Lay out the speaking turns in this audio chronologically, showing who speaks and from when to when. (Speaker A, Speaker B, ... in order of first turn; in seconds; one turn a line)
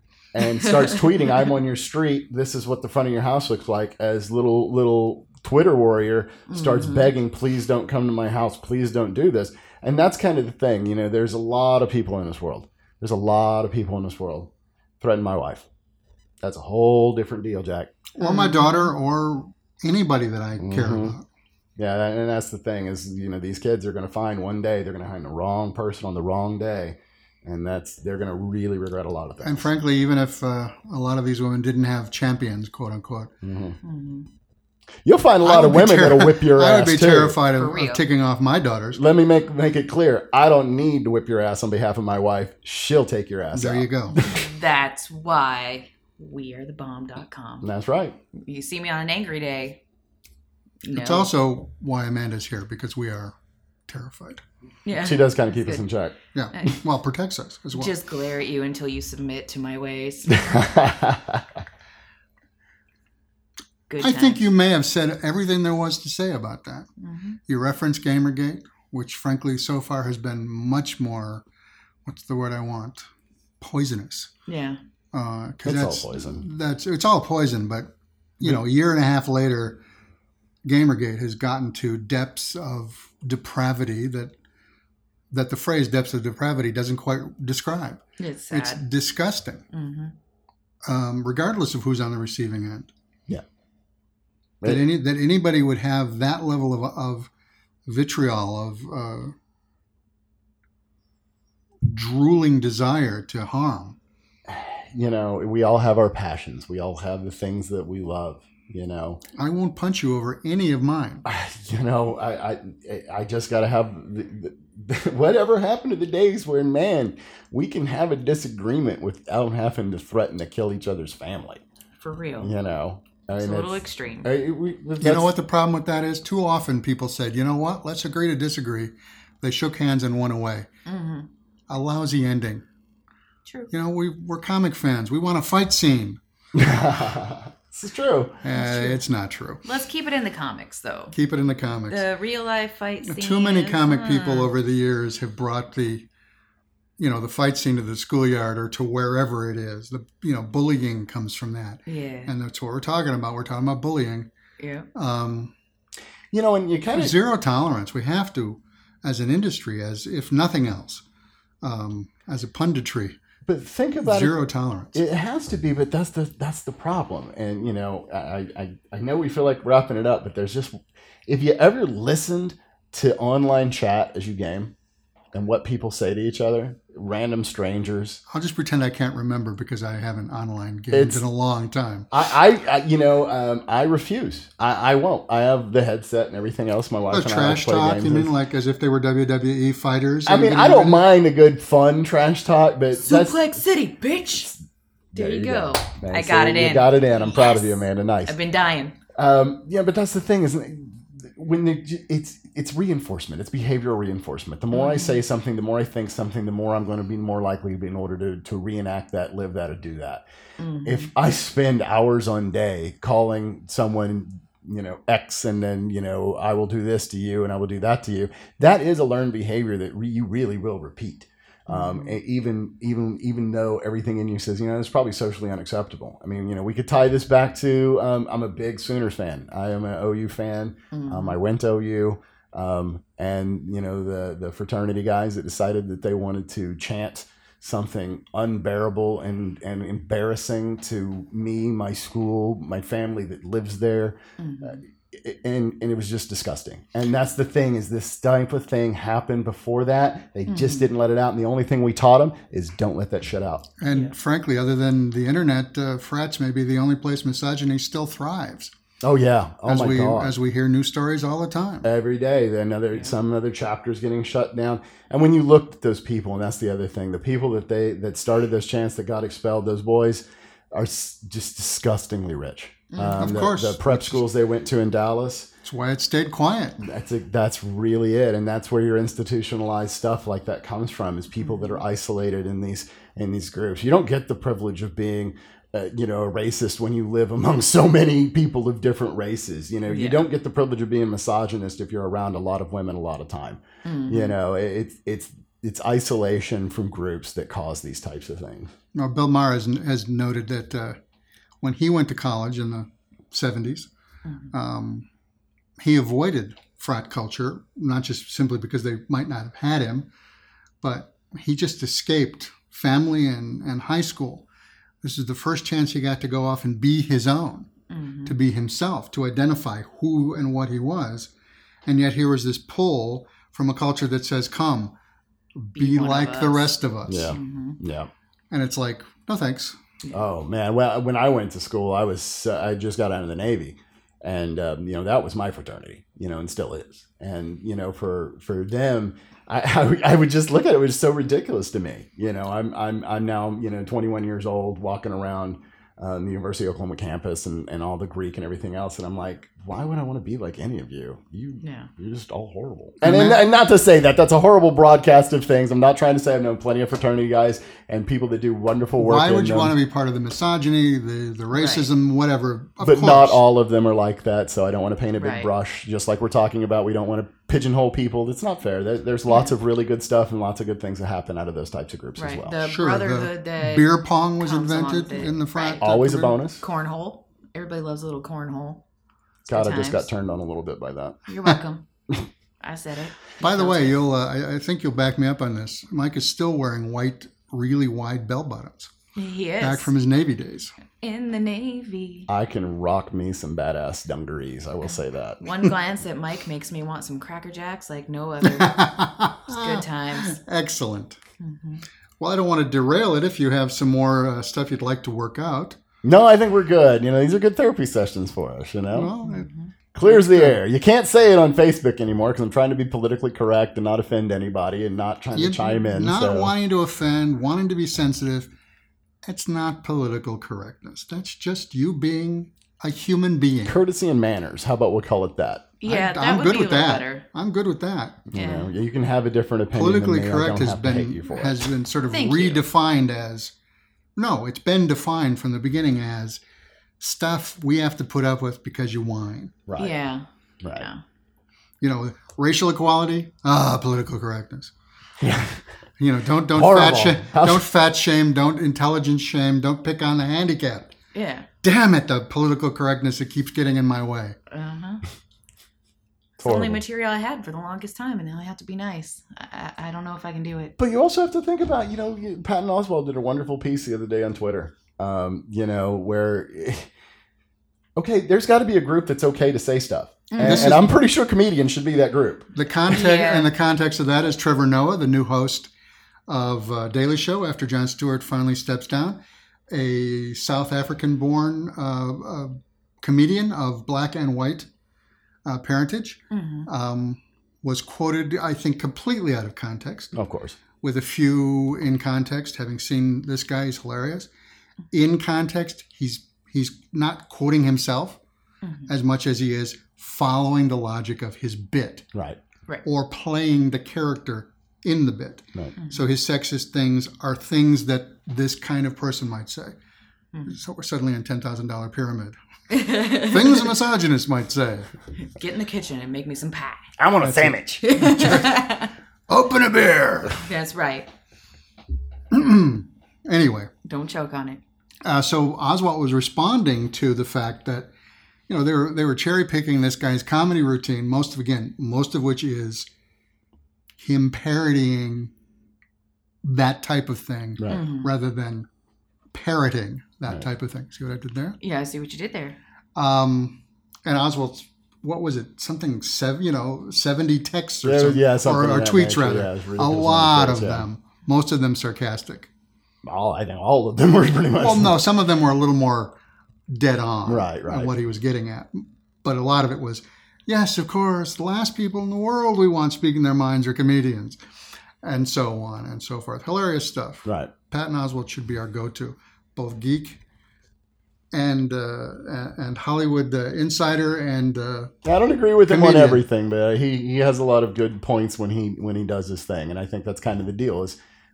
Speaker A: 0.3-15.7
Speaker B: 6.5-7.1
Speaker A: 16.4-17.9
Speaker C: 18.1-21.2
Speaker B: 18.2-18.9
Speaker A: 20.6-21.1
Speaker A: 21.8-29.7
Speaker C: 29.4-33.3
Speaker A: 33.4-33.8
Speaker B: 33.8-34.3
Speaker A: 35.0-37.4
Speaker C: 35.4-39.0
Speaker B: 37.5-38.0
Speaker A: 38.9-44.5
Speaker C: 43.5-44.2
Speaker B: 44.2-47.7
Speaker A: 47.6-48.2
Speaker B: 48.3-49.8
Speaker B: 50.8-51.3
Speaker C: 50.9-53.3
Speaker C: 53.9-54.4
Speaker B: 54.9-55.9
Speaker A: 54.9-56.1
Speaker C: 56.3-57.9
Speaker B: 56.5-56.8
Speaker B: 57.7-60.6
Speaker A: 60.3-61.6
Speaker B: 63.9-64.4
Speaker C: 64.0-66.9
Speaker B: 67.0-67.4
Speaker C: 67.5-71.4
Speaker C: 72.0-73.0
Speaker C: 73.6-74.3
Speaker B: 74.5-74.8
Speaker C: 75.1-79.8
Speaker A: 75.6-76.5
Speaker C: 80.6-84.3
Speaker C: 85.3-89.6
Speaker B: 88.2-88.8
Speaker B: 89.7-90.1
Speaker C: 90.9-92.9
Speaker C: 94.6-97.3
Speaker C: 97.9-99.3
Speaker C: 101.8-104.0
Speaker A: 104.5-109.2
Speaker C: 109.4-111.2
Speaker A: 111.2-121.6
Speaker B: 122.0-122.5
Speaker A: 122.4-125.3
Speaker B: 123.3-124.3
Speaker C: 125.0-130.7
Speaker B: 130.8-131.3
Speaker C: 131.7-132.6
Speaker B: 133.4-133.7
Speaker C: 133.7-136.2
Speaker A: 136.5-138.4
Speaker C: 138.4-139.6
Speaker B: 138.5-139.0
Speaker B: 139.6-141.1
Speaker C: 141.1-142.0
Speaker B: 141.9-144.5
Speaker C: 143.0-146.1
Speaker C: 147.0-154.3
Speaker B: 151.9-152.3
Speaker B: 154.6-154.9
Speaker C: 154.9-155.5
Speaker A: 156.3-157.2
Speaker C: 156.9-161.0
Speaker C: 161.6-163.2
Speaker A: 163.4-164.4
Speaker C: 164.0-165.0
Speaker A: 164.9-170.8
Speaker A: 171.3-174.7
Speaker A: 175.3-178.2
Speaker C: 178.3-182.1
Speaker A: 180.9-181.2
Speaker A: 182.1-188.3
Speaker C: 187.1-191.0
Speaker A: 190.2-193.6
Speaker B: 193.0-194.5
Speaker A: 195.1-198.4
Speaker B: 195.1-199.0
Speaker A: 199.1-210.2
Speaker B: 204.7-205.2
Speaker B: 210.6-211.1
Speaker A: 210.8-253.7
Speaker B: 221.7-222.2
Speaker B: 230.9-231.4
Speaker B: 244.4-244.8
Speaker B: 250.5-250.9
Speaker C: 253.8-258.7
Speaker A: 259.0-260.3
Speaker C: 259.6-261.9
Speaker A: 261.8-275.5
Speaker B: 272.9-273.4
Speaker C: 273.2-274.2
Speaker C: 275.6-276.8
Speaker A: 276.8-298.7
Speaker B: 281.4-281.8
Speaker B: 289.9-290.2
Speaker B: 293.8-294.3
Speaker C: 298.9-301.0
Speaker C: 301.6-303.9
Speaker C: 304.5-305.1
Speaker C: 305.8-310.1
Speaker C: 310.8-314.4
Speaker C: 315.0-317.7
Speaker B: 317.9-318.3
Speaker C: 318.2-321.3
Speaker C: 321.9-324.9
Speaker C: 325.6-327.3
Speaker B: 325.8-327.8
Speaker A: 327.1-328.1
Speaker C: 328.5-329.8
Speaker A: 330.1-359.7
Speaker B: 351.6-351.9
Speaker C: 353.0-353.4
Speaker C: 359.0-363.4
Speaker B: 361.5-361.9
Speaker A: 362.8-372.6
Speaker B: 365.2-365.5
Speaker B: 372.2-376.1
Speaker C: 372.6-376.3
Speaker A: 375.8-376.6
Speaker B: 376.6-378.8
Speaker B: 379.4-380.1
Speaker A: 379.5-381.2
Speaker B: 381.3-381.8
Speaker B: 382.6-384.0
Speaker C: 383.4-388.9
Speaker B: 389.1-389.9
Speaker C: 389.6-390.7
Speaker B: 391.0-392.3
Speaker A: 392.3-395.4
Speaker B: 395.4-400.4
Speaker C: 398.4-401.2
Speaker B: 401.4-401.8
Speaker C: 402.2-405.8
Speaker A: 406.0-409.1
Speaker C: 408.9-409.5
Speaker B: 409.2-409.7
Speaker A: 409.9-416.5
Speaker C: 410.0-410.6
Speaker C: 415.3-418.5
Speaker C: 419.2-423.8
Speaker A: 423.6-425.7
Speaker B: 425.8-427.2
Speaker C: 425.9-428.2
Speaker A: 428.3-431.7
Speaker B: 428.3-428.7
Speaker C: 429.7-433.5
Speaker B: 432.1-432.6
Speaker C: 434.1-436.4
Speaker C: 437.0-439.5
Speaker A: 439.7-439.9
Speaker B: 439.8-440.2
Speaker A: 440.6-440.9
Speaker B: 440.8-441.0
Speaker C: 441.8-444.7
Speaker A: 445.2-445.6
Speaker C: 446.0-450.9
Speaker A: 446.5-447.6
Speaker B: 451.1-451.5
Speaker C: 451.6-454.4
Speaker B: 454.5-455.0
Speaker A: 456.4-456.8
Speaker B: 456.4-460.7
Speaker A: 460.8-466.9
Speaker A: 467.9-472.5
Speaker B: 470.3-470.8
Speaker C: 470.4-470.9
Speaker C: 472.5-475.7
Speaker B: 472.9-473.5
Speaker C: 476.3-479.2
Speaker C: 479.7-484.7
Speaker C: 485.4-490.1
Speaker B: 486.3-486.7
Speaker A: 490.1-490.6
Speaker C: 490.8-494.3
Speaker C: 494.9-498.2
Speaker B: 498.6-498.9
Speaker C: 498.9-502.1
Speaker A: 502.1-502.4
Speaker C: 502.8-509.8
Speaker B: 505.8-506.1
Speaker C: 510.4-514.9
Speaker B: 512.7-513.8
Speaker B: 515.1-517.0
Speaker A: 517.0-517.8
Speaker C: 517.2-518.7
Speaker B: 517.8-518.9
Speaker C: 519.3-520.4
Speaker B: 520.3-521.1
Speaker C: 522.3-523.7
Speaker B: 523.8-524.6
Speaker C: 525.0-527.9
Speaker C: 528.5-532.9
Speaker C: 534.0-535.3
Speaker C: 536.4-538.7
Speaker A: 537.6-537.8
Speaker B: 537.7-538.1
Speaker C: 539.3-541.6
Speaker B: 541.6-542.6
Speaker C: 543.0-552.5
Speaker A: 547.8-550.9
Speaker A: 553.0-555.0
Speaker C: 554.5-556.2
Speaker C: 556.7-564.4
Speaker A: 557.2-557.9
Speaker C: 565.0-570.2
Speaker A: 567.2-567.5
Speaker C: 571.3-574.9
Speaker A: 575.0-581.0
Speaker C: 575.7-576.2